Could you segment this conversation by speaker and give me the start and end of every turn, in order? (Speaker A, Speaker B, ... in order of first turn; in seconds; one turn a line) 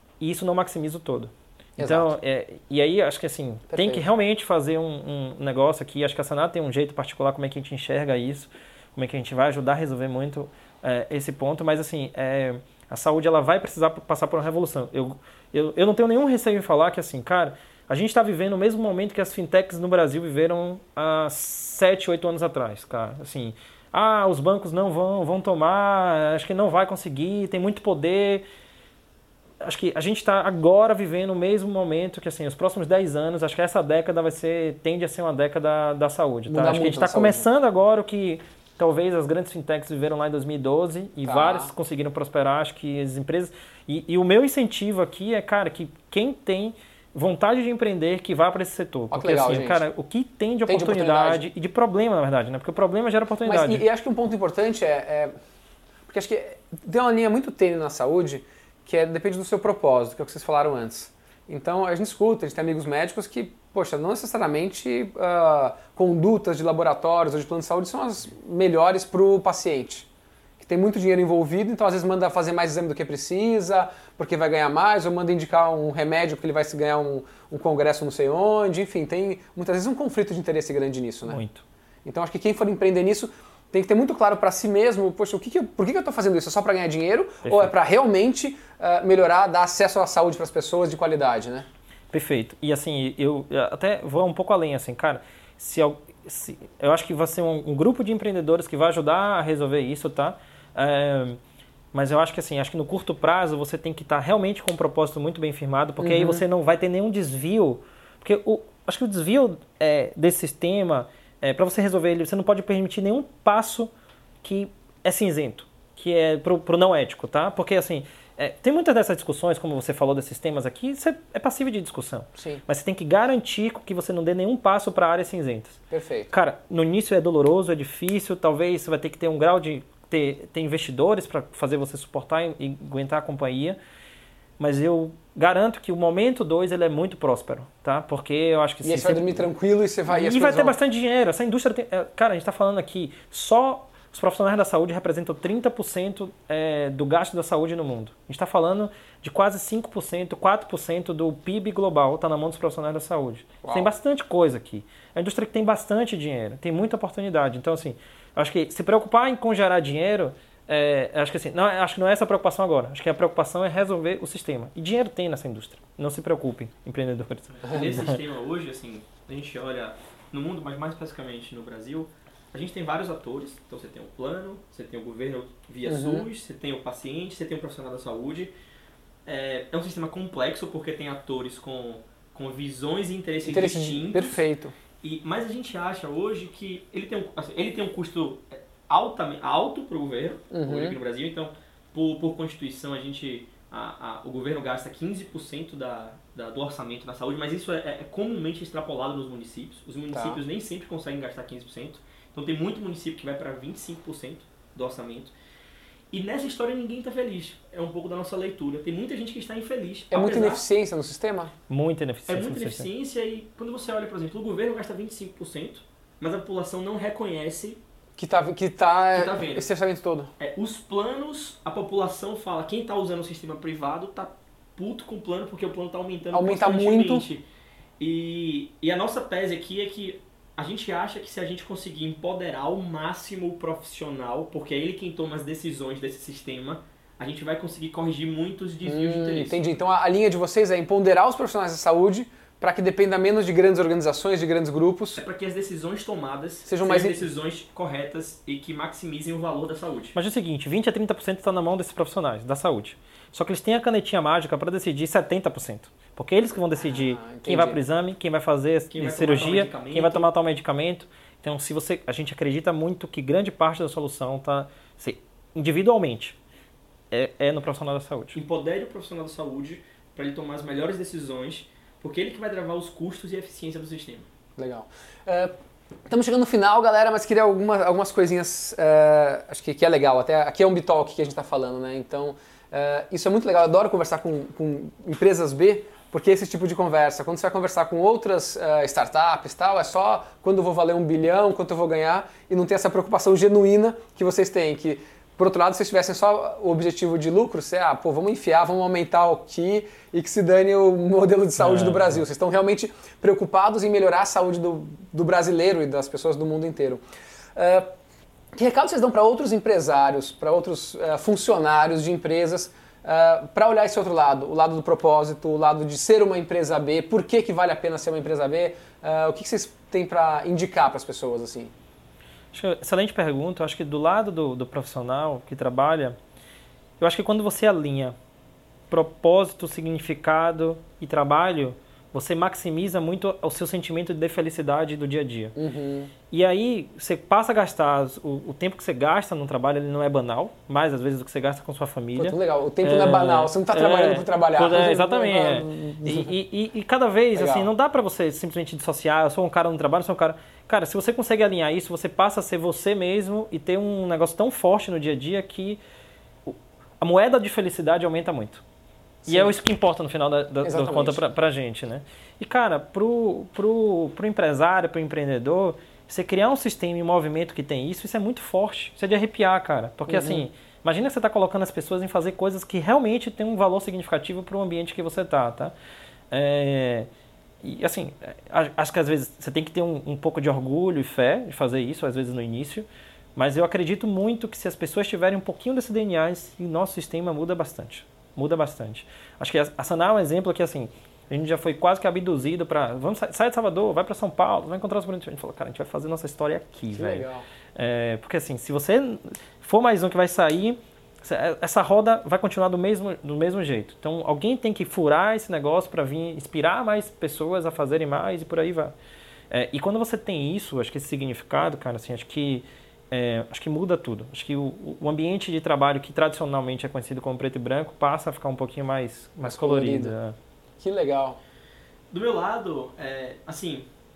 Speaker A: 0.2-28.4
Speaker B: 1.8-2.2
Speaker B: 3.7-4.1
Speaker A: 29.6-53.8
Speaker B: 36.5-37.5
Speaker B: 41.2-41.7
Speaker B: 49.1-49.8
Speaker B: 50.7-51.4
Speaker B: 53.4-55.3
Speaker B: 56.1-70.1
Speaker B: 70.6-81.4
Speaker A: 81.3-81.6
Speaker B: 82.0-91.7
Speaker A: 87.4-87.7
Speaker A: 92.1-101.4
Speaker A: 101.9-113.9
Speaker B: 106.0-106.4
Speaker A: 114.4-125.8
Speaker B: 122.4-122.6
Speaker B: 125.9-126.3
Speaker A: 126.3-133.8
Speaker A: 134.6-139.5
Speaker B: 138.8-140.8
Speaker A: 140.1-168.2
Speaker B: 153.6-153.9
Speaker C: 167.6-178.5
Speaker B: 175.8-176.3
Speaker C: 179.2-184.4
Speaker B: 183.4-184.7
Speaker C: 185.0-205.3
Speaker B: 190.5-191.0
Speaker B: 200.1-200.4
Speaker C: 206.1-210.6
Speaker B: 210.1-211.5
Speaker A: 211.7-212.9
Speaker C: 212.3-217.8
Speaker B: 218.2-220.3
Speaker C: 219.1-219.7
Speaker C: 220.4-227.4
Speaker B: 226.3-227.3
Speaker C: 228.0-239.6
Speaker B: 238.8-245.2
Speaker C: 245.2-250.2
Speaker B: 246.7-247.2
Speaker A: 250.1-266.4
Speaker B: 256.8-257.8
Speaker C: 258.9-260.3
Speaker A: 267.1-268.4
Speaker C: 268.3-274.3
Speaker B: 274.6-275.5
Speaker B: 276.1-307.0
Speaker A: 301.6-302.2
Speaker B: 307.6-307.9
Speaker B: 308.5-321.7
Speaker A: 322.5-326.2
Speaker A: 327.0-328.2
Speaker A: 328.9-335.5
Speaker B: 335.6-336.1
Speaker A: 336.3-355.8
Speaker B: 342.2-346.3
Speaker B: 347.3-347.7
Speaker A: 356.4-358.6
Speaker B: 359.2-359.5
Speaker A: 359.3-375.7
Speaker B: 360.6-361.2
Speaker B: 370.1-370.5
Speaker A: 376.3-377.1
Speaker A: 377.6-408.9
Speaker B: 396.9-397.4
Speaker A: 409.5-420.4
Speaker B: 419.4-420.1
Speaker B: 420.8-421.4
Speaker C: 422.1-423.9